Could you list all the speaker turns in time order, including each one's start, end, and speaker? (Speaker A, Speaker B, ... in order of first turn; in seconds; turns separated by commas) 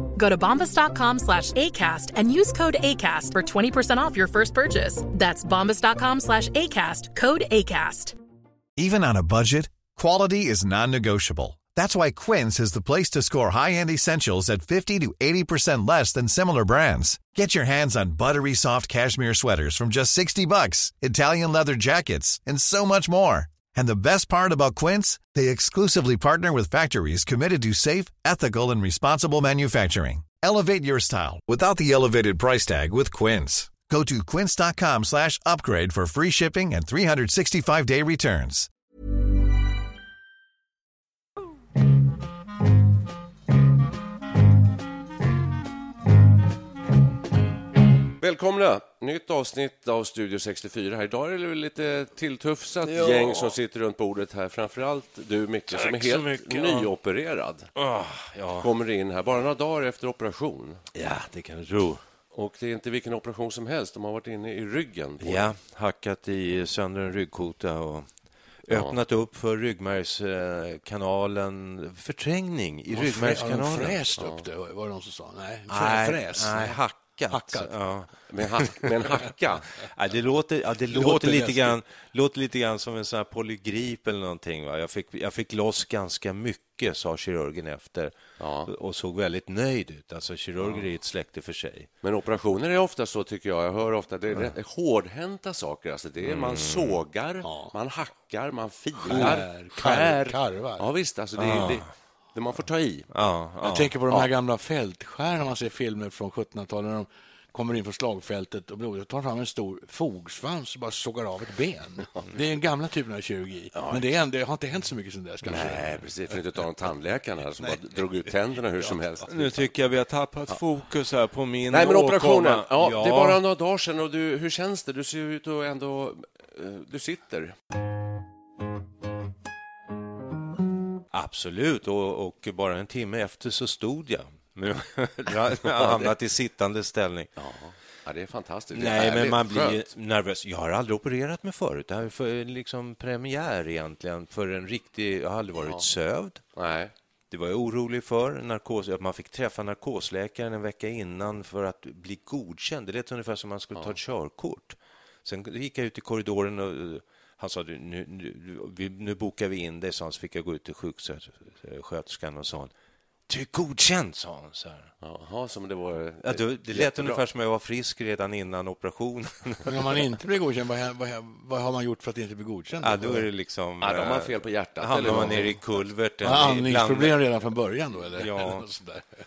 Speaker A: 0.1-8.2, Speaker B: 8.8-38.7, Speaker C: 48.2-57.7, Speaker D: 52.8-53.5, Speaker D: 55.7-56.9, Speaker D: 57.8-58.7, Speaker C: 58.6-60.8, Speaker D: 60.9-62.0, Speaker C: 62.3-65.5, Speaker D: 65.2-68.1, Speaker D: 68.6-74.0, Speaker C: 68.7-69.0, Speaker E: 72.9-77.8, Speaker C: 74.2-74.4, Speaker D: 75.7-88.1, Speaker C: 78.3-79.6, Speaker E: 80.9-81.8, Speaker C: 88.4-88.7, Speaker D: 88.7-91.9, Speaker C: 90.6-90.9, Speaker C: 92.0-103.1, Speaker D: 96.2-97.0, Speaker E: 97.4-97.7, Speaker E: 99.0-100.8, Speaker D: 99.1-99.4, Speaker D: 101.3-101.9, Speaker D: 103.1-104.2, Speaker E: 103.6-116.0, Speaker C: 113.7-114.0, Speaker C: 115.5-119.7, Speaker D: 119.2-123.4, Speaker C: 121.7-127.5, Speaker D: 131.1-137.3, Speaker C: 135.6-136.1, Speaker C: 137.4-139.9, Speaker D: 138.7-146.4, Speaker C: 145.6-145.9, Speaker C: 146.6-146.9, Speaker D: 147.3-162.7, Speaker D: 163.3-164.9, Speaker C: 165.0-167.2, Speaker D: 166.2-170.0, Speaker E: 169.7-173.3, Speaker D: 172.8-177.3, Speaker C: 173.8-175.7, Speaker E: 175.0-175.6, Speaker E: 176.2-179.1, Speaker D: 178.1-178.7